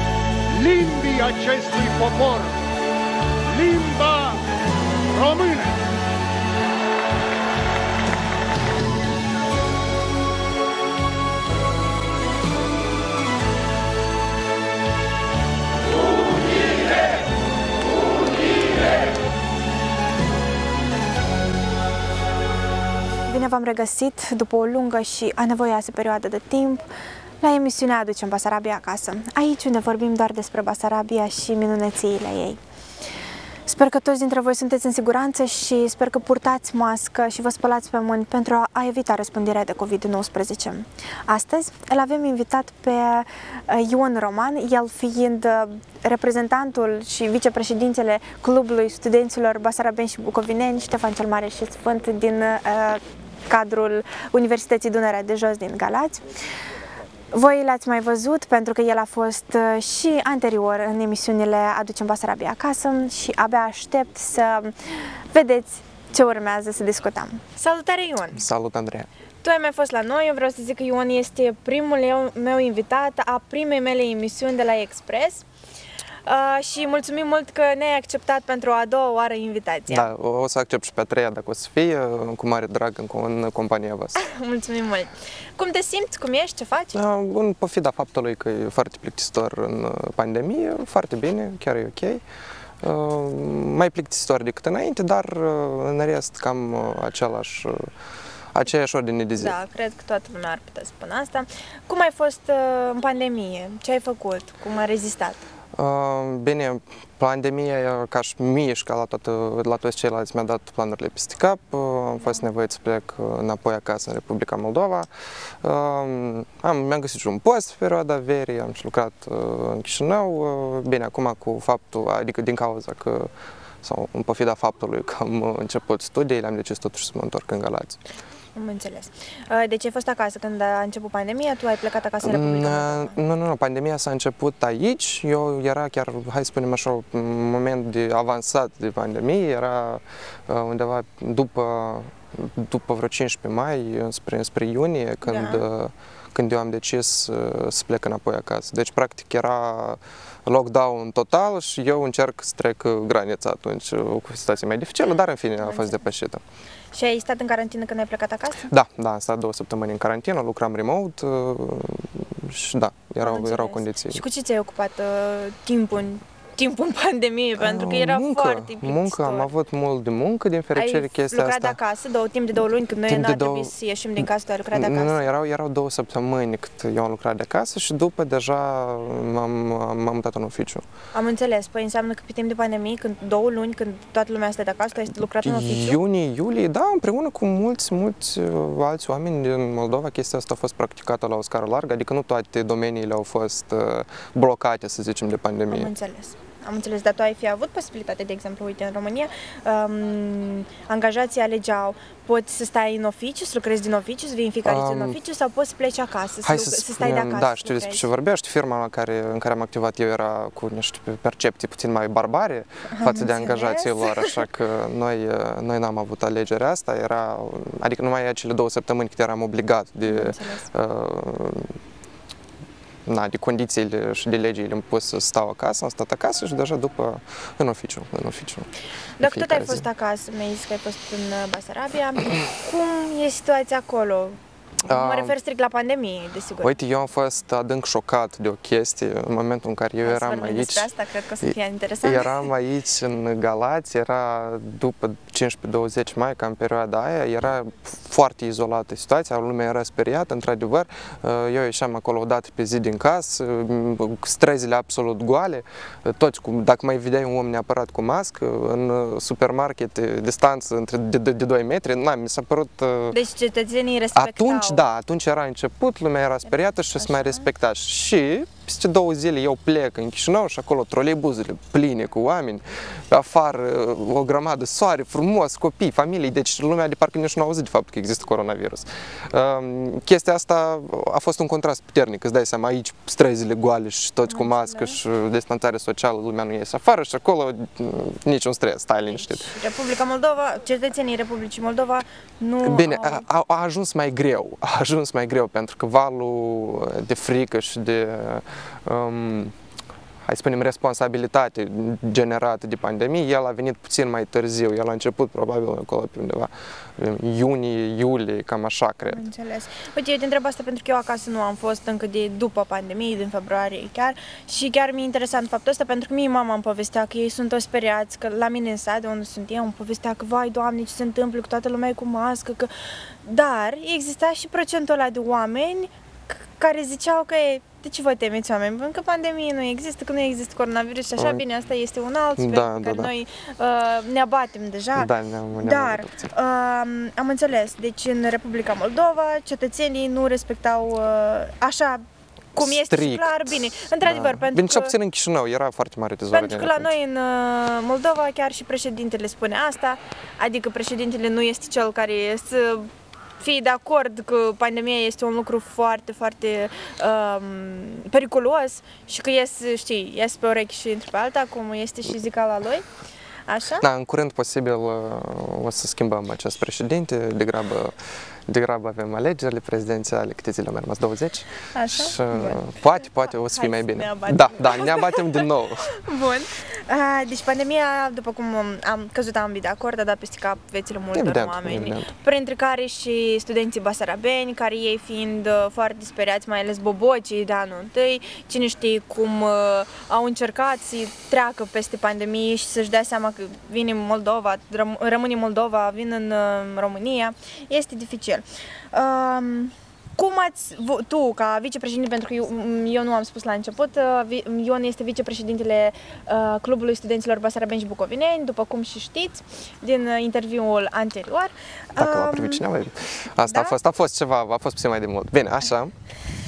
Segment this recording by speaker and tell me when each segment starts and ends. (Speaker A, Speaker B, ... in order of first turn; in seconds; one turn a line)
Speaker A: 0.5-2.5
Speaker A: 3.5-4.4
Speaker A: 5.1-5.8
Speaker B: 23.3-26.9
Speaker B: 27.4-32.6
Speaker B: 33.7-56.2
Speaker B: 57.3-68.4
Speaker C: 68.3-69.1
Speaker B: 69.4-75.4
Speaker B: 76.2-80.1
Speaker C: 79.9-84.2
Speaker B: 84.2-87.0
Speaker C: 86.9-92.2
Speaker C: 92.8-97.9
Speaker C: 98.5-99.5
Speaker B: 99.4-105.4
Speaker C: 105.8-115.1
Speaker C: 115.6-123.3
Speaker C: 123.8-128.0
Speaker B: 128.5-133.2
Speaker C: 132.2-156.4
Speaker B: 145.2-145.6
Speaker B: 155.6-156.0
Speaker B: 156.9-158.7
Speaker C: 158.7-164.2
Speaker B: 163.2-169.5
Speaker C: 167.6-171.8
Speaker B: 170.7-175.2
Speaker C: 173.1-180.8
Speaker B: 181.1-186.0
Speaker C: 185.4-195.9
Speaker B: 195.7-208.1
Speaker C: 204.6-205.2
Speaker C: 206.4-221.8
Speaker B: 212.9-214.3
Speaker B: 220.1-220.7
Speaker C: 223.1-228.7
Speaker B: 229.2-236.8
Speaker C: 229.2-229.8
Speaker C: 234.8-235.3
Speaker C: 236.6-240.9
Speaker B: 240.0-242.4
Speaker C: 242.0-263.2
Speaker B: 263.1-264.8
Speaker C: 264.1-289.5
Speaker B: 266.9-267.5
Speaker B: 284.3-285.0
Speaker B: 289.1-293.2
Speaker C: 292.6-299.5
Speaker C: 300.2-309.2
Speaker B: 309.1-322.7
Speaker B: 323.2-342.0
Speaker C: 331.2-331.4
Speaker C: 332.4-333.1
Speaker C: 334.9-336.3
Speaker B: 342.5-344.9
Speaker C: 342.6-346.9
Speaker B: 346.3-362.9
Speaker B: 363.5-363.9
Speaker C: 363.8-375.9
Speaker B: 371.7-372.7
Speaker B: 373.4-412.6
Speaker C: 381.1-382.1
Speaker C: 412.0-415.9
Speaker B: 413.5-413.7